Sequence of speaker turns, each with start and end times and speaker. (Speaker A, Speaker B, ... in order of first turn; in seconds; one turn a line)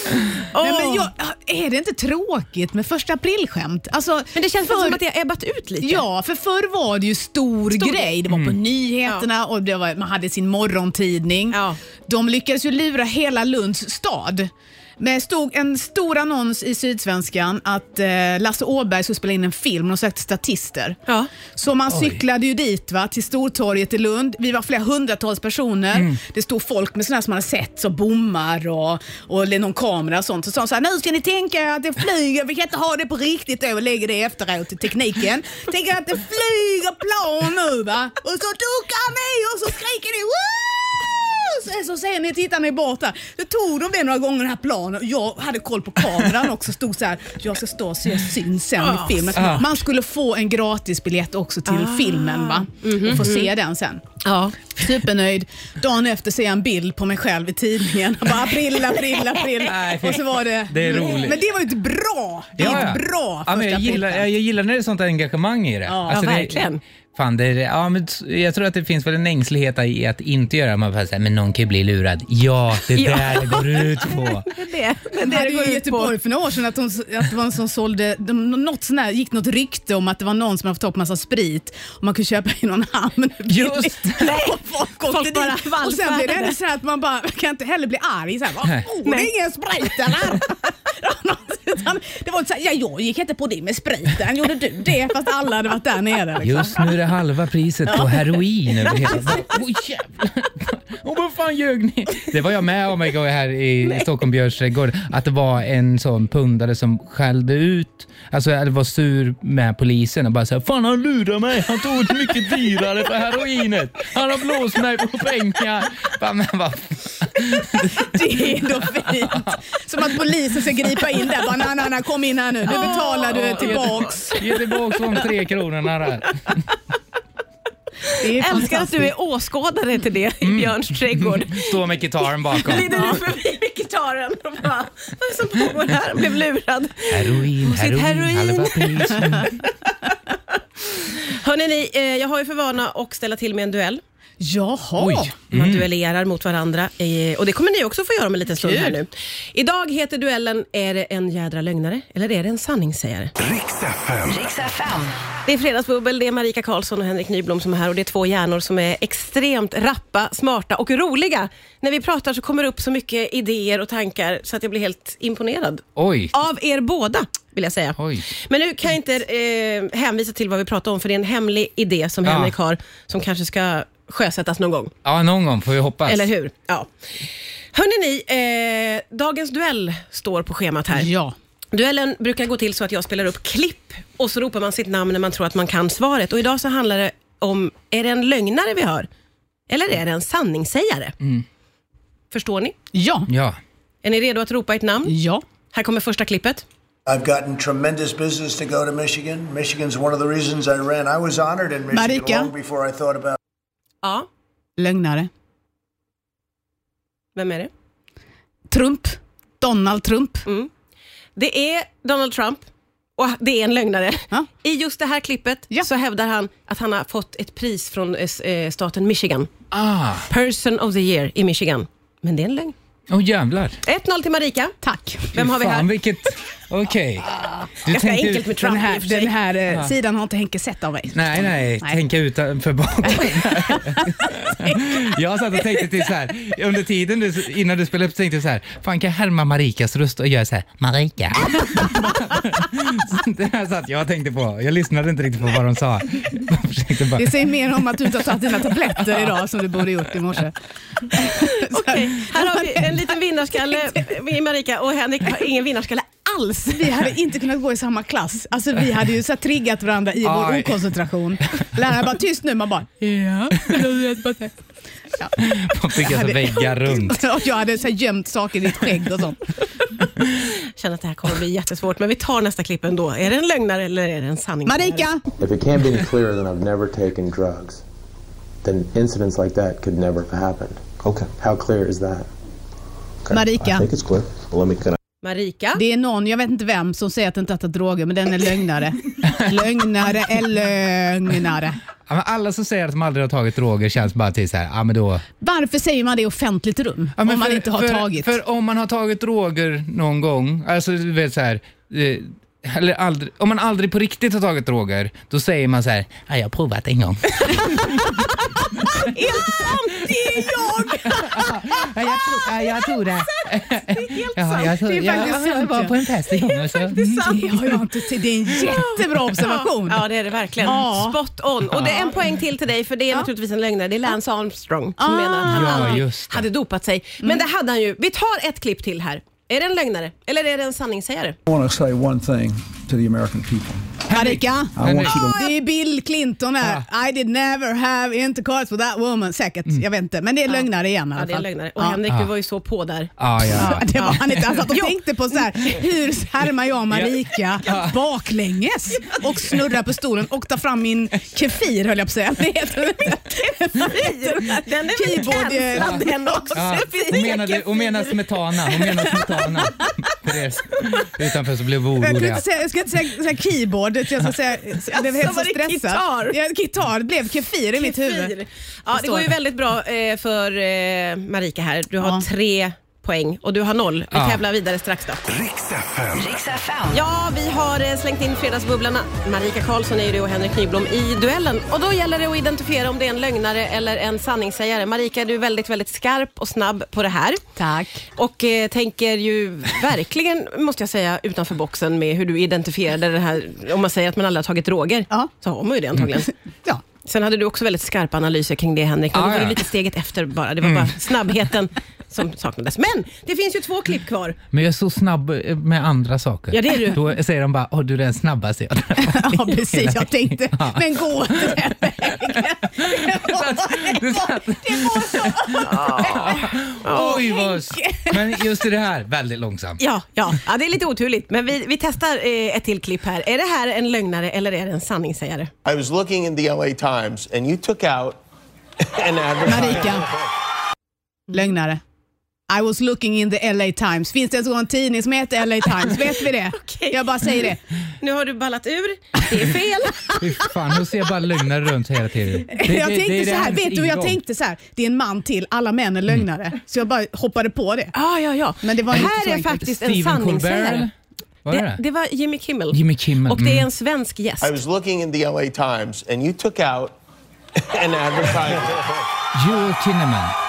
Speaker A: 0.5-1.1
Speaker B: 0.6-5.0
Speaker A: 4.3-6.0
Speaker B: 5.8-21.0
Speaker A: 7.7-8.2
Speaker C: 8.3-8.6
Speaker A: 11.5-11.8
Speaker B: 21.5-54.0
Speaker C: 21.9-22.2
Speaker C: 25.9-26.2
Speaker A: 48.8-49.6
Speaker C: 49.4-49.7
Speaker A: 51.7-53.5
Speaker A: 54.2-54.8
Speaker B: 54.7-64.2
Speaker C: 59.6-61.4
Speaker A: 60.9-61.2
Speaker C: 62.6-74.5
Speaker A: 62.6-62.9
Speaker B: 65.9-66.2
Speaker A: 66.1-66.8
Speaker A: 72.9-76.2
Speaker B: 75.2-96.9
Speaker C: 83.5-84.3
Speaker A: 84.2-86.6
Speaker A: 89.0-89.3
Speaker C: 96.4-119.6
Speaker B: 97.9-99.4
Speaker B: 118.0-124.5
Speaker A: 122.7-124.4
Speaker C: 122.7-126.6
Speaker A: 128.1-131.8
Speaker B: 128.1-129.1
Speaker C: 130.4-133.2
Speaker A: 132.5-139.5
Speaker B: 132.9-133.2
Speaker C: 137.1-139.6
Speaker A: 140.5-144.0
Speaker B: 144.4-145.3
Speaker C: 145.0-145.9
Speaker A: 145.5-153.3
Speaker B: 148.6-149.0
Speaker D: 153.4-155.1
Speaker A: 155.5-174.9
Speaker C: 166.0-166.3
Speaker C: 168.0-168.3
Speaker C: 172.2-172.5
Speaker C: 175.1-176.3
Speaker A: 176.1-176.9
Speaker A: 177.7-181.1
Speaker B: 180.9-181.3
Speaker A: 181.7-189.1
Speaker A: 189.7-191.1
Speaker A: 192.3-192.8
Speaker B: 192.9-193.3
Speaker C: 193.3-193.6
Speaker A: 194.0-195.1
Speaker B: 195.1-195.4
Speaker A: 195.7-196.6
Speaker E: 197.1-203.4
Speaker B: 201.9-202.5
Speaker B: 204.8-205.3
Speaker A: 207.3-207.7
Speaker B: 208.7-210.4
Speaker A: 211.4-212.6
Speaker A: 213.2-219.5
Speaker C: 219.7-220.3
Speaker A: 220.3-222.7
Speaker C: 223.1-223.8
Speaker A: 223.8-224.8
Speaker B: 224.8-225.3
Speaker A: 225.3-225.9
Speaker C: 225.3-228.6
Speaker A: 227.8-229.3
Speaker B: 228.6-232.0
Speaker C: 229.7-229.9
Speaker C: 231.1-248.3
Speaker B: 233.1-235.0
Speaker B: 241.8-242.2
Speaker B: 247.2-250.6
Speaker C: 249.0-249.4
Speaker B: 251.1-253.9
Speaker A: 251.2-257.0
Speaker B: 256.8-264.5
Speaker C: 260.2-261.0
Speaker C: 265.4-267.2
Speaker B: 265.9-269.5
Speaker A: 270.6-275.1
Speaker B: 274.6-275.3
Speaker F: 275.4-277.8
Speaker F: 278.6-282.3
Speaker F: 283.3-285.0
Speaker B: 283.3-283.9
Speaker A: 285.2-285.8
Speaker B: 285.8-291.8
Speaker C: 289.3-289.6
Speaker C: 292.1-295.2
Speaker B: 295.4-298.3
Speaker C: 297.2-308.1
Speaker B: 308.0-311.8
Speaker A: 309.4-311.3
Speaker C: 311.1-317.0
Speaker A: 312.6-315.4
Speaker B: 314.7-316.0
Speaker A: 316.8-317.8
Speaker B: 316.9-320.1
Speaker A: 318.7-331.4
Speaker B: 320.6-321.2
Speaker C: 321.7-322.1
Speaker B: 325.0-326.0
Speaker C: 325.4-326.5
Speaker G: 331.5-333.8
Speaker C: 334.1-335.4
Speaker B: 334.1-342.0
Speaker G: 334.9-335.2
Speaker C: 336.6-336.9
Speaker A: 340.5-345.4
Speaker C: 343.2-344.4
Speaker B: 343.5-357.1
Speaker C: 346.9-348.0
Speaker A: 353.3-358.2
Speaker C: 355.8-362.5
Speaker A: 358.8-359.1
Speaker B: 362.0-368.4
Speaker A: 364.9-366.4
Speaker A: 367.8-375.2
Speaker B: 368.9-369.3
Speaker B: 372.0-372.2
Speaker C: 374.1-374.4
Speaker D: 375.3-376.7
Speaker A: 376.8-387.4
Speaker B: 387.6-388.0
Speaker A: 388.1-396.3
Speaker A: 397.1-404.4
Speaker C: 399.1-399.7
Speaker C: 400.6-401.0
Speaker C: 404.5-419.8
Speaker A: 406.5-407.0
Speaker B: 409.0-418.5
Speaker A: 415.6-417.2
Speaker A: 419.8-425.5
Speaker H: 425.6-428.2
Speaker H: 428.8-430.1
Speaker B: 429.4-430.1
Speaker B: 431.3-431.8
Speaker B: 432.5-437.6
Speaker A: 436.6-437.3
Speaker A: 438.0-440.2
Speaker C: 440.2-444.2
Speaker B: 442.5-447.9
Speaker A: 447.9-450.9
Speaker B: 448.6-449.5
Speaker C: 448.9-450.9
Speaker C: 451.4-451.8
Speaker A: 451.5-454.6
Speaker C: 452.7-453.7
Speaker H: 454.4-457.0
Speaker H: 457.6-459.0
Speaker C: 459.3-460.4